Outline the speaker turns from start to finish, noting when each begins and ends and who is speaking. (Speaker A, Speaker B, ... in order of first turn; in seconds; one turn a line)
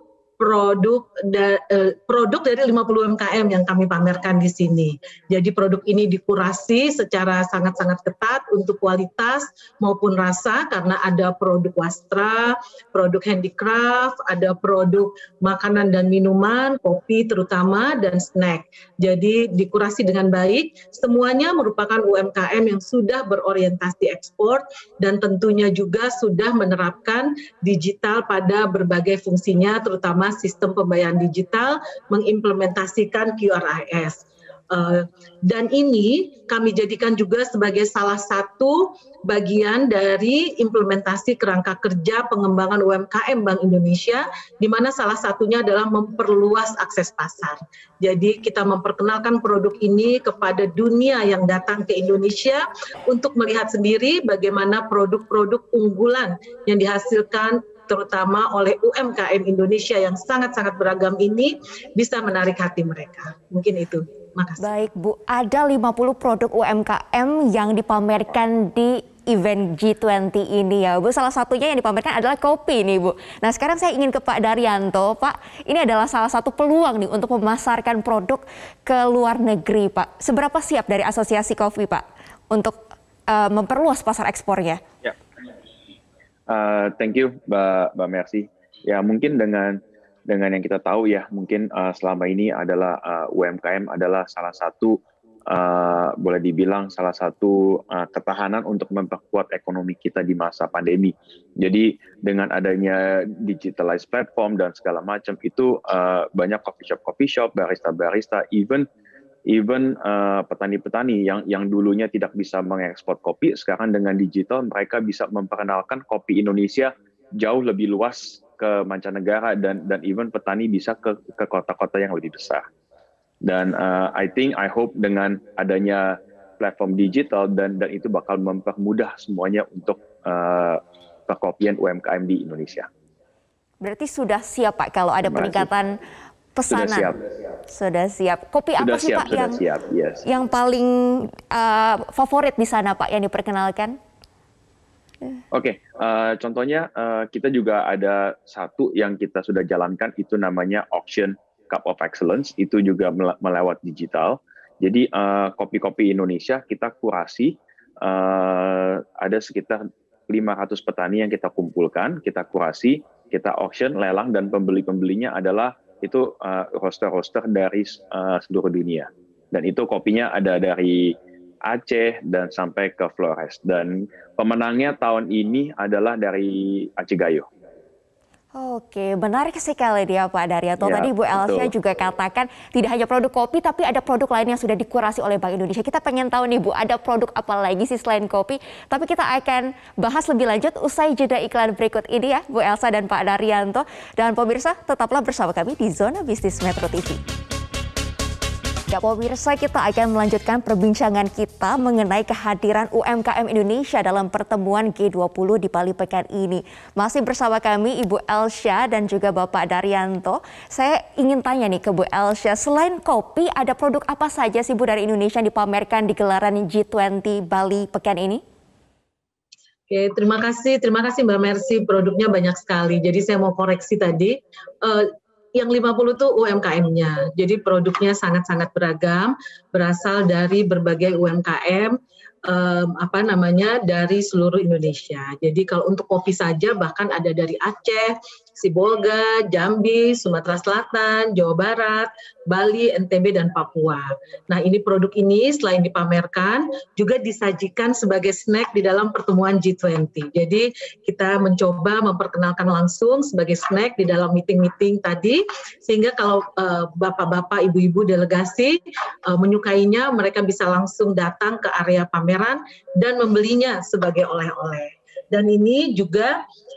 Speaker A: 0.4-64.7
Speaker B: 64.6-82.8
Speaker B: 83.3-84.8
Speaker C: 86.5-95.0
Speaker C: 95.5-108.9
Speaker C: 109.5-122.6
Speaker C: 123.4-132.9
Speaker B: 133.8-136.0
Speaker C: 135.2-135.7
Speaker B: 136.5-137.1
Speaker C: 136.7-137.2
Speaker B: 137.7-139.6
Speaker C: 138.8-140.2
Speaker B: 140.2-144.0
Speaker C: 145.5-177.4
Speaker B: 178.5-197.2
Speaker C: 180.8-181.7
Speaker B: 198.9-218.4
Speaker A: 219.9-266.4